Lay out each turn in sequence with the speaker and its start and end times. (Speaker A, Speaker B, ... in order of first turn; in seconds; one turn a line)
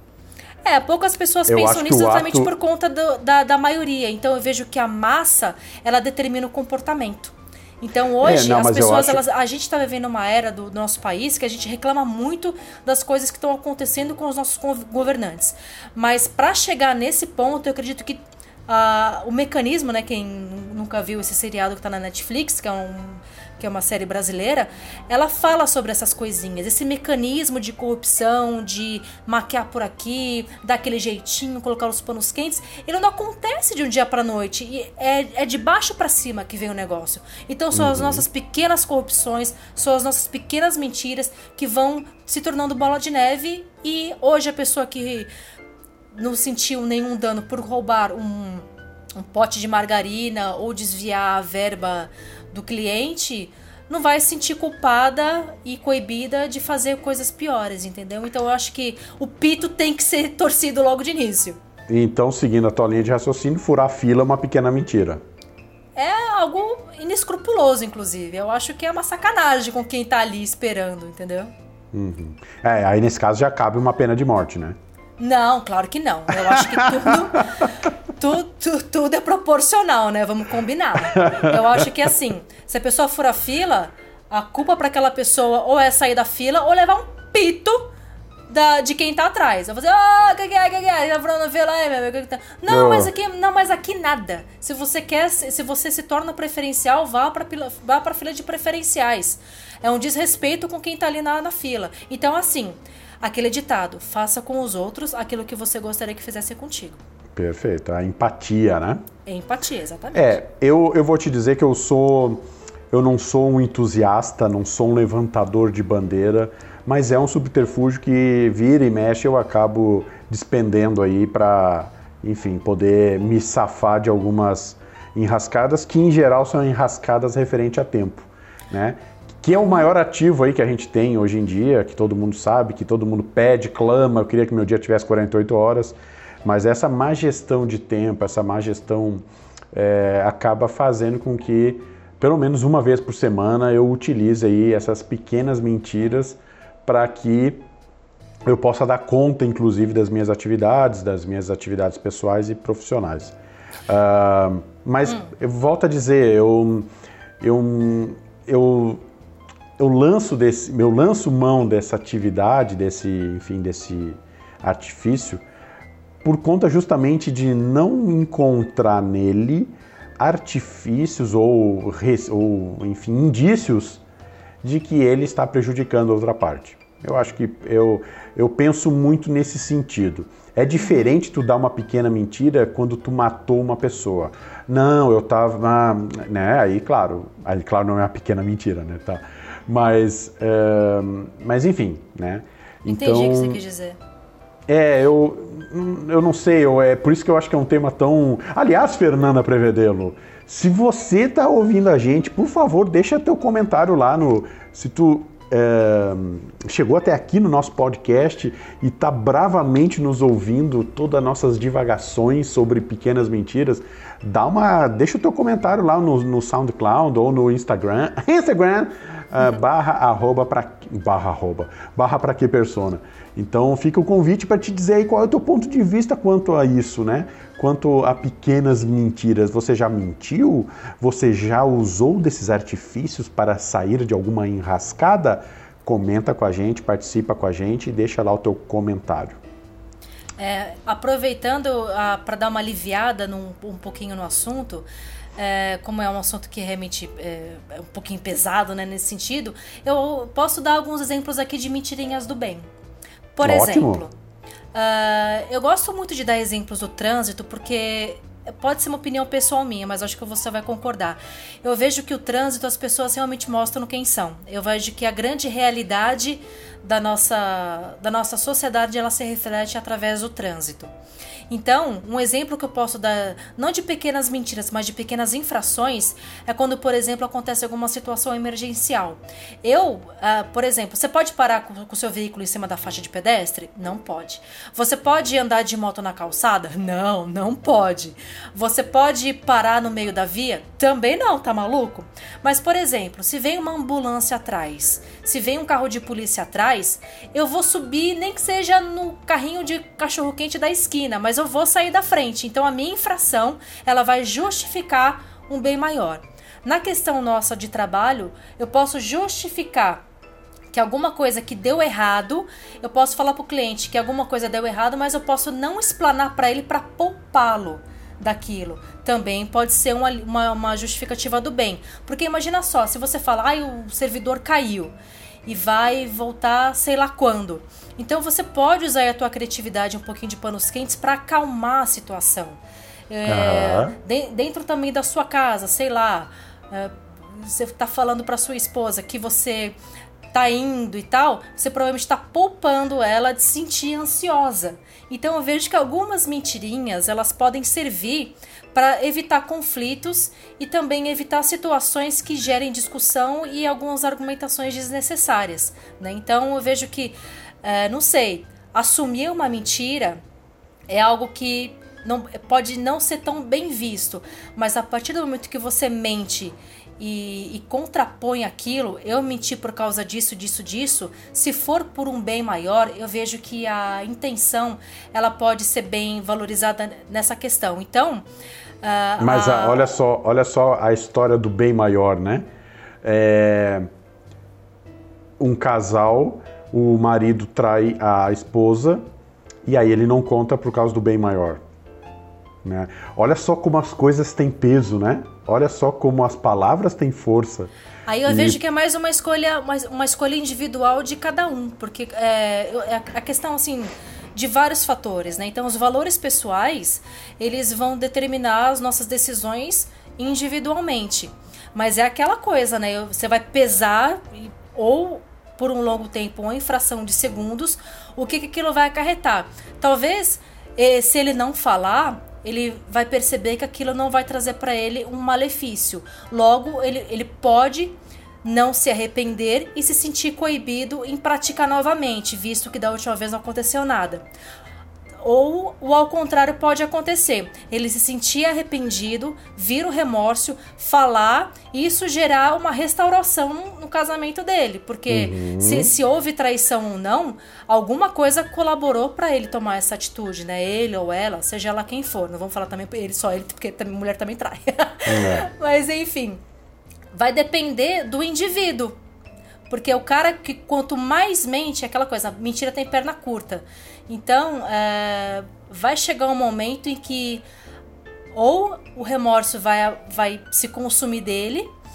Speaker A: 0.7-45.3
Speaker B: 1.5-2.5
Speaker B: 8.2-9.2
Speaker B: 37.7-38.3
Speaker A: 46.1-48.6
Speaker A: 49.2-61.6
Speaker B: 61.9-65.2
Speaker A: 66.0-71.5
Speaker B: 71.9-74.8
Speaker A: 75.2-87.9
Speaker B: 76.4-77.1
Speaker B: 81.2-81.8
Speaker A: 88.5-107.0
Speaker B: 92.7-93.1
Speaker B: 107.4-109.0
Speaker A: 109.2-110.4
Speaker B: 110.1-147.6
Speaker B: 148.5-153.3
Speaker B: 153.9-156.9
Speaker B: 157.4-159.0
Speaker B: 159.8-165.4
Speaker B: 166.2-174.0
Speaker B: 174.6-193.6
Speaker A: 192.9-194.0
Speaker B: 194.7-239.4
Speaker A: 240.4-252.7
Speaker A: 253.3-254.1
Speaker B: 253.4-254.1
Speaker A: 254.7-270.9
Speaker A: 271.5-310.0
Speaker A: 310.7-324.9
Speaker A: 325.5-332.6
Speaker A: 333.1-339.8
Speaker B: 333.3-334.0
Speaker A: 340.3-360.2
Speaker A: 360.9-378.2
Speaker A: 378.8-379.9
Speaker B: 379.2-382.5
Speaker B: 383.0-383.9
Speaker B: 385.4-389.0
Speaker B: 389.6-391.6
Speaker B: 392.6-397.7
Speaker A: 398.1-434.2
Speaker B: 398.3-398.6
Speaker A: 435.2-456.4
Speaker B: 445.1-445.9
Speaker B: 455.1-455.5
Speaker A: 457.1-459.0
Speaker A: 459.7-467.4
Speaker A: 468.3-471.7